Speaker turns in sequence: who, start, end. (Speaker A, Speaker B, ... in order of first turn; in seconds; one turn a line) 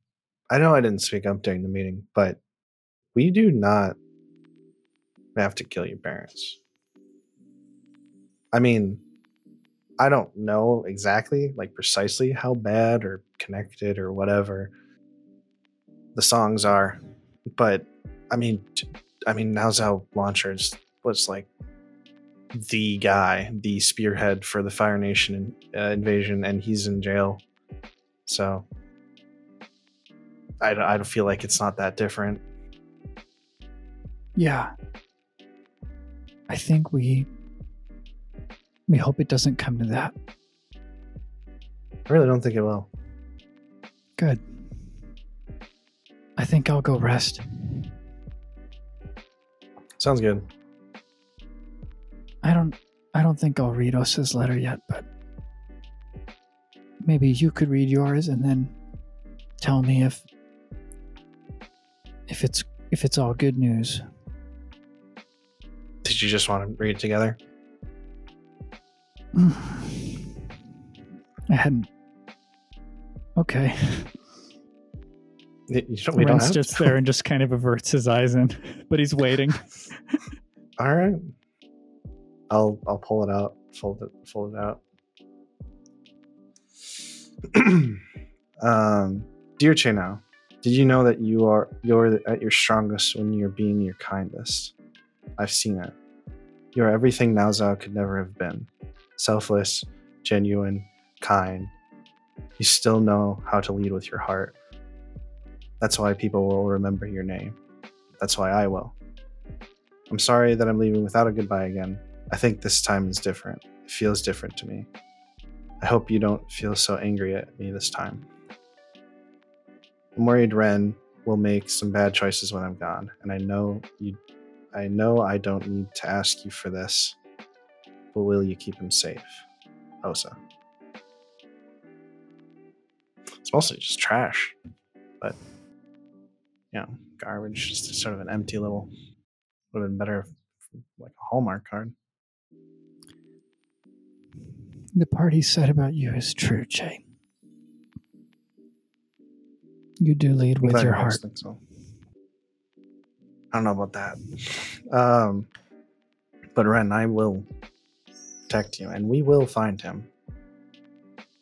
Speaker A: 0.5-2.4
Speaker A: 3.1-4.0
Speaker A: 5.4-6.6
Speaker A: 8.5-9.0
Speaker A: 10.0-14.7
Speaker A: 16.1-17.0
Speaker A: 17.6-21.5
Speaker A: 22.5-27.4
Speaker A: 28.3-28.7
Speaker A: 30.6-32.4
Speaker B: 34.4-34.7
Speaker B: 36.5-37.3
Speaker B: 38.9-40.1
Speaker A: 42.1-42.9
Speaker B: 44.2-44.6
Speaker B: 46.4-47.9
Speaker A: 50.0-50.5
Speaker B: 52.4-55.1
Speaker B: 57.0-58.8
Speaker B: 59.6-60.2
Speaker B: 62.3-64.0
Speaker A: 66.0-67.4
Speaker B: 69.3-70.3
Speaker B: 71.5-71.9
Speaker B: 73.4-74.1
Speaker A: 75.7-77.0
Speaker B: 76.2-79.7
Speaker A: 80.8-81.3
Speaker A: 82.5-84.8
Speaker A: 87.5-88.0
Speaker A: 88.6-94.7
Speaker A: 95.4-95.9
Speaker A: 96.7-101.7
Speaker A: 102.6-104.5
Speaker A: 105.8-107.6
Speaker A: 108.2-109.0
Speaker A: 110.1-114.9
Speaker A: 115.8-118.3
Speaker A: 120.2-124.2
Speaker A: 124.7-127.2
Speaker A: 128.1-129.4
Speaker A: 130.0-130.4
Speaker A: 133.4-134.6
Speaker A: 136.7-138.9
Speaker A: 139.7-140.3
Speaker A: 140.9-141.9
Speaker B: 145.0-147.0
Speaker B: 150.0-151.2
Speaker A: 150.6-151.6
Speaker A: 153.5-155.5
Speaker A: 156.6-157.5
Speaker A: 158.5-160.1